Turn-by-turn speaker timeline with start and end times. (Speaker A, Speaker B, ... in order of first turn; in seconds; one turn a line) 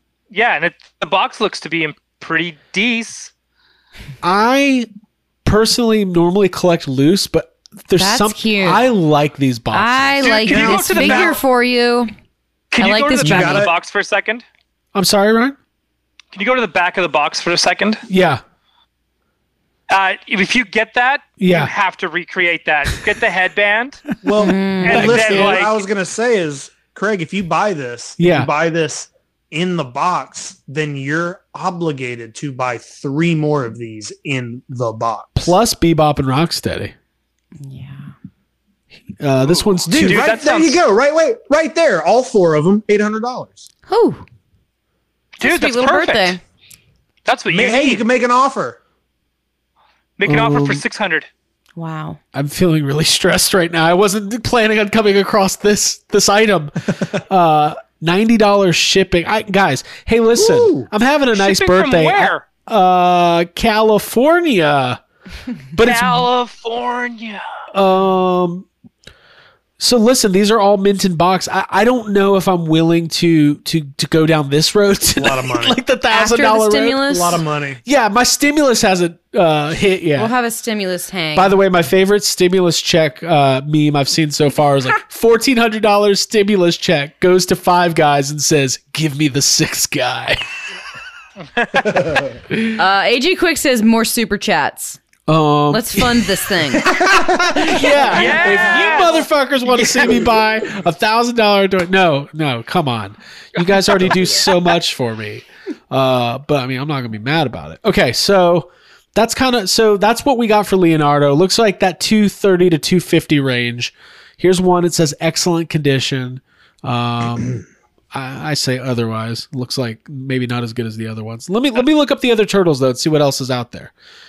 Speaker A: 0.3-3.3
Speaker B: 4.2-4.9
Speaker B: 5.4-11.3
Speaker C: 8.0-8.8
Speaker C: 9.7-12.1
Speaker A: 10.2-11.4
Speaker A: 12.7-14.4
Speaker C: 12.8-13.7
Speaker D: 13.2-13.7
Speaker B: 14.9-15.6
Speaker A: 16.3-18.0
Speaker B: 18.1-18.4
Speaker A: 19.9-24.0
Speaker B: 21.4-21.7
Speaker D: 24.2-35.5
Speaker B: 24.3-25.6
Speaker C: 24.4-25.0
Speaker A: 24.8-25.8
Speaker B: 28.2-28.5
Speaker B: 35.4-36.9
Speaker C: 37.6-38.1
Speaker B: 39.1-40.3
Speaker D: 39.9-43.7
Speaker A: 40.0-40.8
Speaker C: 43.9-44.2
Speaker A: 45.4-46.4
Speaker C: 45.4-46.4
Speaker A: 47.2-48.0
Speaker D: 47.5-48.8
Speaker A: 50.2-51.3
Speaker B: 50.2-50.8
Speaker C: 51.8-52.2
Speaker B: 52.3-65.0
Speaker D: 60.4-60.9
Speaker A: 61.3-62.4
Speaker B: 65.7-66.3
Speaker A: 65.8-67.4
Speaker B: 67.7-68.7
Speaker B: 69.8-77.1
Speaker D: 75.2-75.8
Speaker C: 76.1-77.4
Speaker D: 77.1-77.8
Speaker B: 77.8-80.3
Speaker C: 80.2-81.5
Speaker B: 81.3-90.4
Speaker A: 91.6-91.8
Speaker D: 91.8-92.3
Speaker B: 92.5-92.7
Speaker C: 92.8-95.0
Speaker B: 95.3-123.9
Speaker C: 95.7-97.0
Speaker D: 96.9-98.1
Speaker C: 97.7-98.1
Speaker A: 98.1-99.2
Speaker A: 103.6-104.0
Speaker D: 104.0-104.4